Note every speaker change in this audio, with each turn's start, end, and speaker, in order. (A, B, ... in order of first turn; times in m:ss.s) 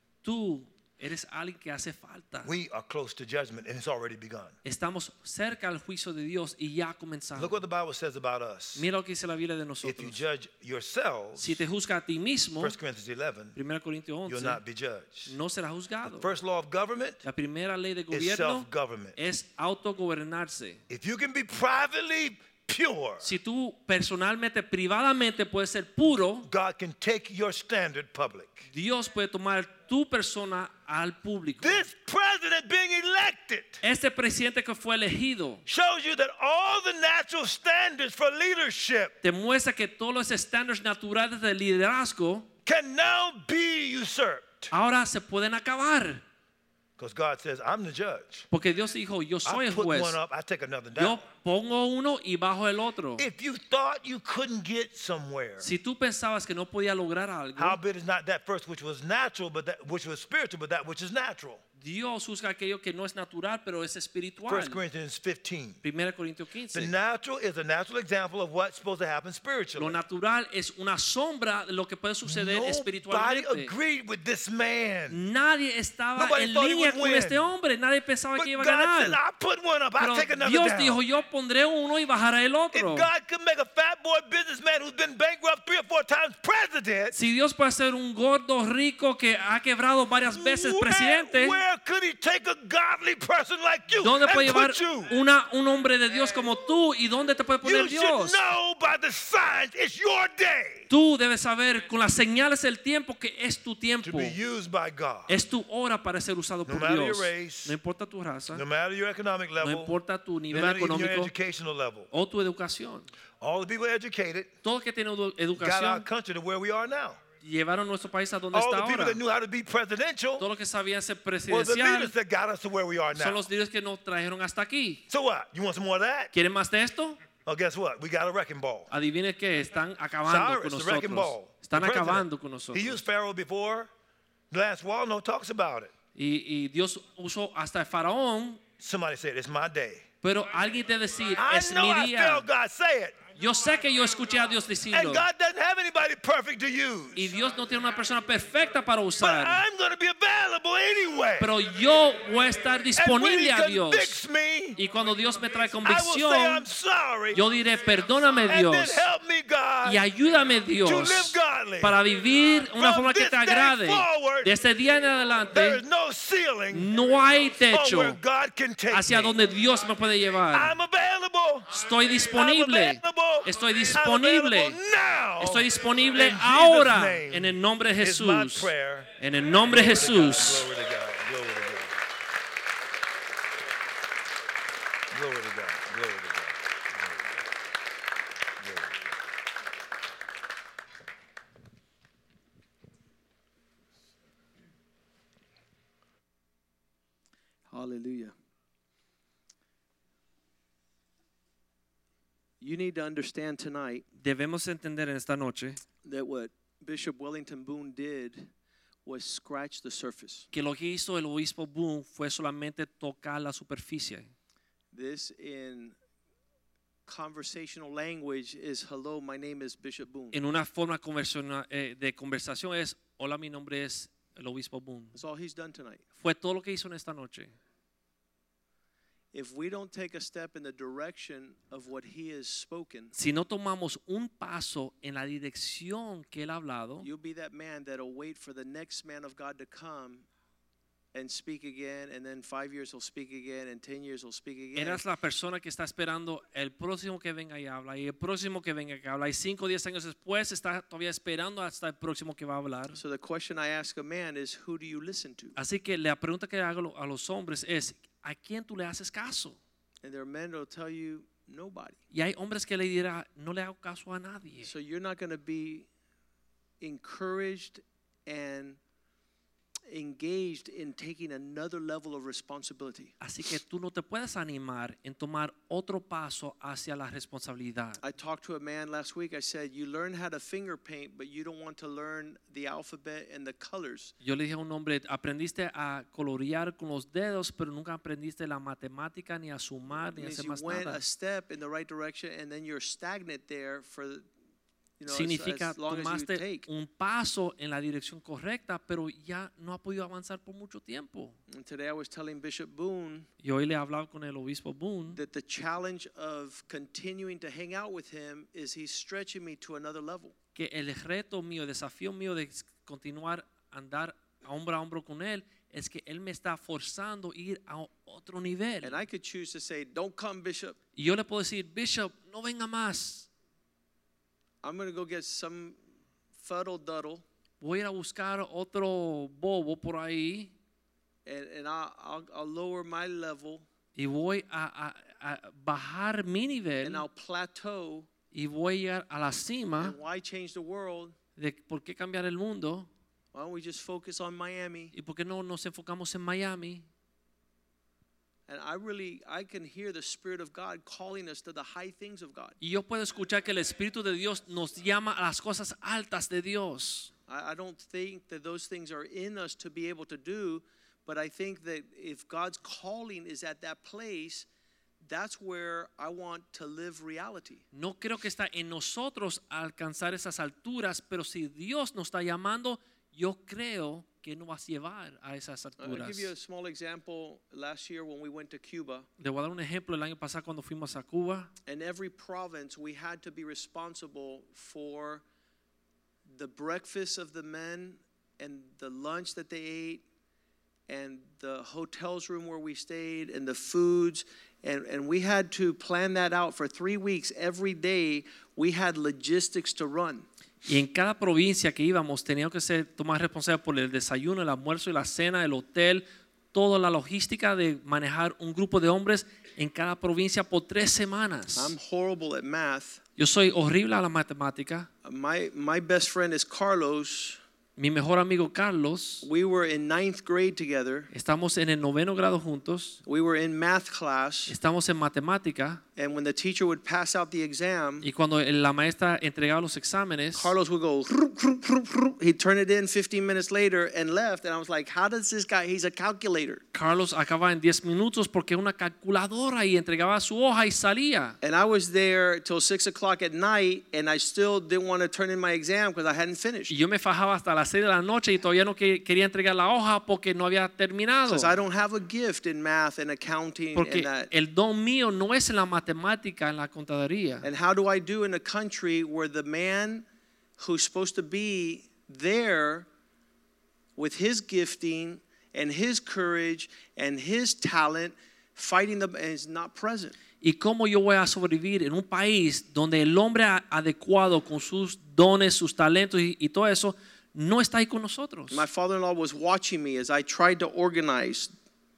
0:00.2-0:02.5 A
0:02.4-0:04.6 B
0:04.6-0:07.6 A
0:07.4-0:08.9 B
0:08.8-0:10.2 A
0:09.8-0:11.6 B
0:11.4-0:12.8 A
0:12.6-0:13.6 B
0:13.6-0:14.6 A
0:14.3-0:15.4 B
0:15.3-0:16.3 A
0:16.0-0:17.2 B
0:17.2-0:20.8 A
0:18.1-0:19.2 B
0:20.9-0:23.3 B
0:23.2-0:26.5 A
0:26.5-0:28.7 B
0:28.7-0:31.9 A
0:31.6-0:33.8 B
0:33.8-0:35.6 A
0:35.7-0:39.2 B
0:39.2-0:42.5 A
0:42.7-0:44.7 B
0:44.7-0:46.2 A
0:47.0-0:48.5 B
0:48.5-0:50.2 A
0:49.4-0:51.2 B
0:51.0-0:53.3 A
0:53.2-0:55.7 B
0:55.6-0:57.8 A
0:57.6-1:01.6 B
1:01.8-1:04.8 A
1:04.5-1:05.8 B
1:05.8-1:06.9 A
1:06.7-1:10.0 B
1:09.8-1:13.7 A
1:12.2-1:15.2 B
1:15.1-1:19.2 A
1:16.2-1:17.5 B
1:18.4-1:21.0 B
1:20.0-1:23.1 A
1:22.7-1:27.2 B
1:27.1-1:31.6 A
1:30.3-1:35.1 B
1:34.0-1:38.5 A
1:37.6-1:40.9 B
1:40.9-1:44.4 A
1:44.0-1:45.4 B
1:45.3-1:48.6 A
1:46.7-1:47.8 B
1:48.5-1:49.9 B
1:49.6-1:51.3 A
1:50.5-1:52.1 B
1:52.1-1:53.1 A
1:53.4-1:54.5 B
1:54.6-1:56.1 A
1:55.6-1:57.2 B
1:57.4-1:59.2 A
1:58.5-2:00.5 B
2:00.4-2:02.1 A
2:01.5-2:03.5 B
2:03.2-2:05.0 A
2:05.1-2:06.3 B
2:06.3-2:07.2 A
2:07.4-2:08.9 B
2:08.9-2:13.0 A
2:10.2-2:13.9 B
2:14.5-2:15.9 B
2:16.2-2:18.6 A
2:18.8-2:20.1 B
2:20.2-2:22.5 A
2:21.4-2:23.2 B
2:23.4-2:25.3 A
2:24.9-2:27.3 B
2:27.2-2:29.6 A
2:29.2-2:31.6 B
2:31.4-2:34.2 A
2:33.0-2:34.8 B
2:34.8-2:36.7 A
2:35.8-2:37.4 B
2:37.3-2:39.1 A
2:38.5-2:40.0 B
2:39.8-2:45.8 A
2:40.8-2:42.0 B
2:42.8-2:44.5 B
2:45.5-2:46.9 B
2:46.7-2:48.2 A
2:47.7-2:49.4 B
2:48.9-2:50.7 A
2:50.5-2:51.7 B
2:51.7-2:54.8 A
2:52.3-3:02.0 B
2:55.4-3:00.7 A
3:05.1-3:07.3 B
3:08.6-3:09.1 B
3:17.7-3:18.3 C
3:22.6-3:24.1 C
3:24.2-3:25.8 A
3:26.0-3:28.5 C
3:29.0-3:30.5 C
3:30.5-3:34.3 A
3:34.9-3:36.0 C
3:37.1-3:40.4 C
3:40.3-3:45.2 A
3:45.1-3:46.0 C
3:46.2-3:47.5 A
3:49.3-3:53.1 C
3:53.1-3:57.1 A
3:57.0-4:00.3 C
4:01.1-4:05.0 C
4:04.8-4:13.0 A
4:12.9-4:15.6 C
4:15.6-4:19.6 A
4:20.0-4:22.0 C
4:22.1-4:24.7 A
4:24.6-4:25.9 C
4:26.8-4:28.8 C
4:29.9-4:33.2 C
4:33.2-4:38.0 A
4:38.0-4:44.2 C
4:44.2-4:51.0 A
4:50.1-4:54.3 C
4:55.0-4:56.7 C
4:55.1-5:01.4 A
5:01.5-5:03.3 C
5:03.4-5:05.2 A
5:05.1-5:10.4 C
5:10.6-5:19.0 A
5:18.8-5:20.8 C
5:21.0-5:23.3 A
5:24.6-5:25.8 C
5:26.4-5:27.2 C
5:27.6-5:30.5 A
5:31.2-5:33.7 C
5:34.0-5:37.0 A
5:36.8-5:38.1 C
5:38.3-5:40.0 A
5:39.8-5:41.2 C
5:41.4-5:42.9 A
5:43.3-5:44.9 C
5:44.9-5:46.9 A
5:48.5-5:52.6 C
5:52.6-5:57.1 A
5:57.3-6:04.5 C
6:05.0-6:07.6 C
6:07.7-6:16.3 A
6:15.8-6:19.1 C
6:19.2-6:21.5 A
6:21.7-6:25.2 C
6:26.3-6:30.0 C
6:30.9-6:40.3 C
6:40.6-6:51.7 A
6:51.6-6:53.0 C
6:53.2-6:54.9 A
6:55.0-6:57.4 C
6:57.8-6:59.3 A
6:59.2-7:01.1 C
7:01.1-7:03.0 A
7:03.1-7:04.6 C
7:04.5-7:05.8 A
7:06.0-7:08.1 C
7:08.0-7:10.5 A
7:10.4-7:16.6 C
7:16.7-7:21.4 A
7:21.4-7:26.7 C
7:26.7-7:31.6 A
7:31.3-7:34.3 C
7:33.8-7:37.5 A
7:37.4-7:40.0 C
7:40.6-7:42.9 C
7:44.0-7:50.2 C
7:50.4-7:58.6 A
7:58.5-8:01.5 C